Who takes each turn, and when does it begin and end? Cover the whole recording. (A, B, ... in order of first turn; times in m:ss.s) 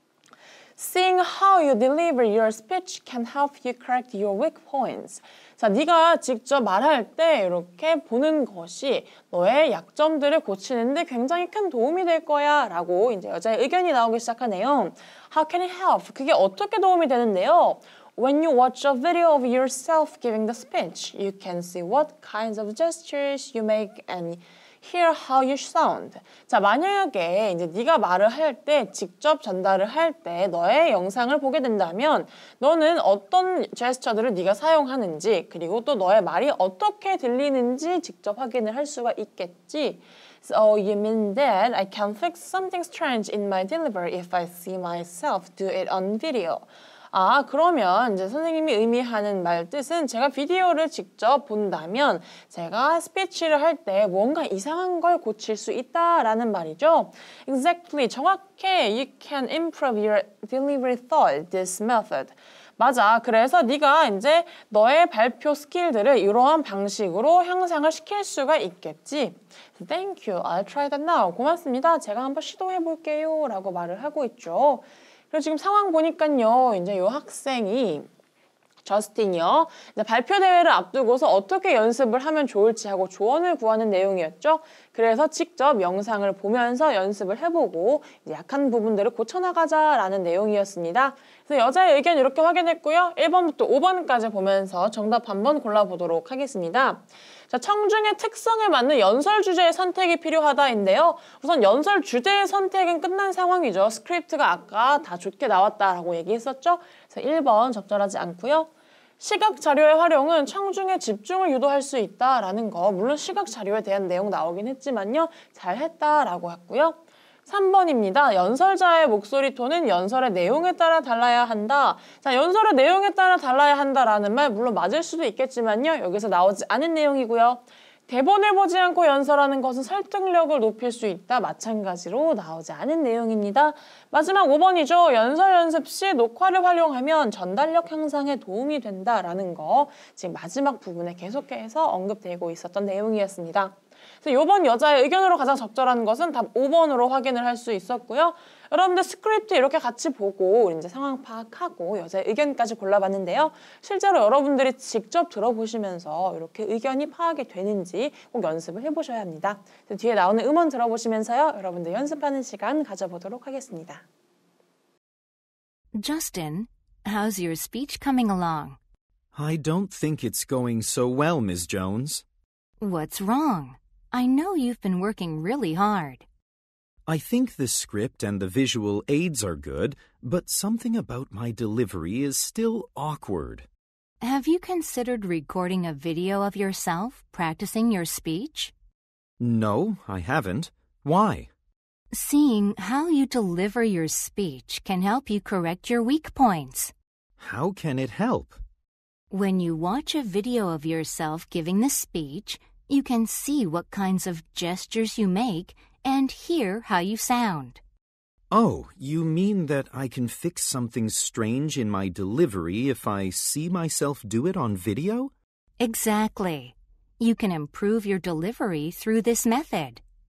0:00.8-1:18.1 A
1:18.8-2:44.0 A
2:45.9-2:48.8 B
2:49.3-2:52.2 C
2:52.8-2:56.2 B
2:57.1-3:03.7 C
3:04.2-3:08.7 B
3:09.4-3:11.5 C
3:12.1-3:16.9 B
3:17.4-3:18.6 C
3:19.3-3:27.8 B
3:28.5-3:35.3 C
3:35.8-3:40.0 B